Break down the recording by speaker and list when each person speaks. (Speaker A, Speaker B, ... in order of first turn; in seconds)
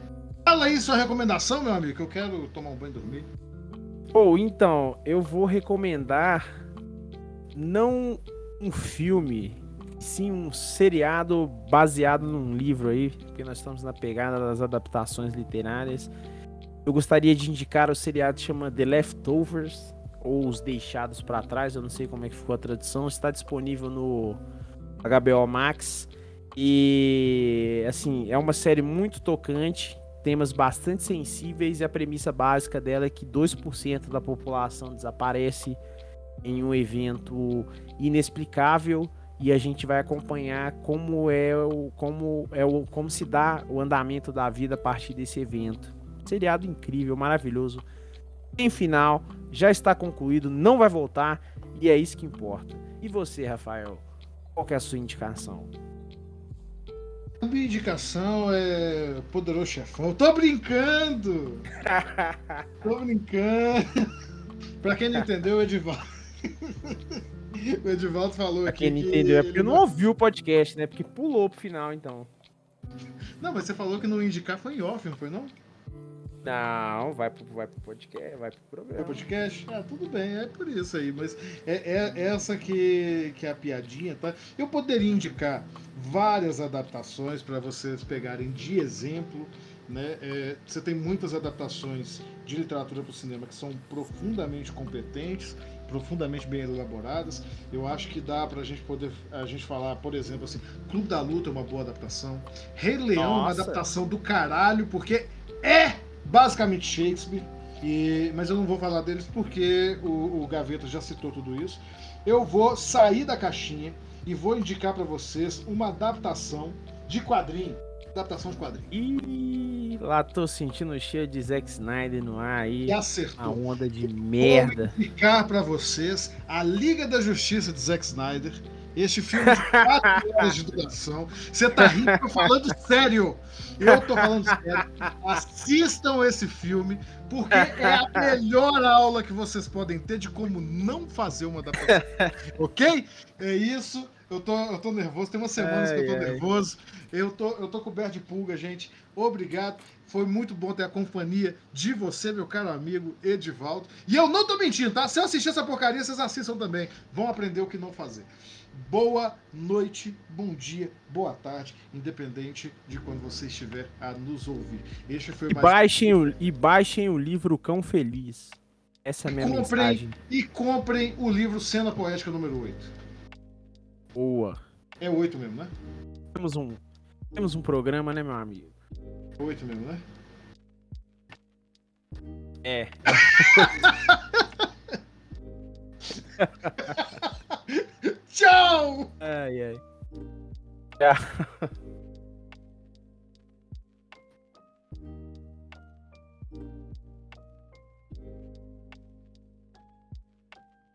Speaker A: 0.5-3.3, 57.4-61.7, 62.8-63.9, 64.8-69.8, 73.4-75.5, 79.0-118.9, 122.9-123.6, 124.4-165.8, 169.3-172.9, 175.0-175.7, 179.4-180.0, 183.1-184.7, 186.8-189.1
Speaker B: 4.1-6.5, 7.5-16.1, 16.8-24.4, 25.0-35.8, 36.4-47.8, 48.6-54.0, 54.5-55.7, 61.8-62.7, 68.7-72.3, 76.4-79.2, 103.1-103.8, 118.9-125.0, 129.3-130.5, 131.8-132.5, 133.9-135.1, 137.5-138.3, 141.8-142.3, 145.6-146.4, 165.5-170.2, 174.1-174.6, 176.3-176.8, 177.3-178.7, 182.6-183.9, 186.3-187.1, 189.2-189.8, 191.0-191.7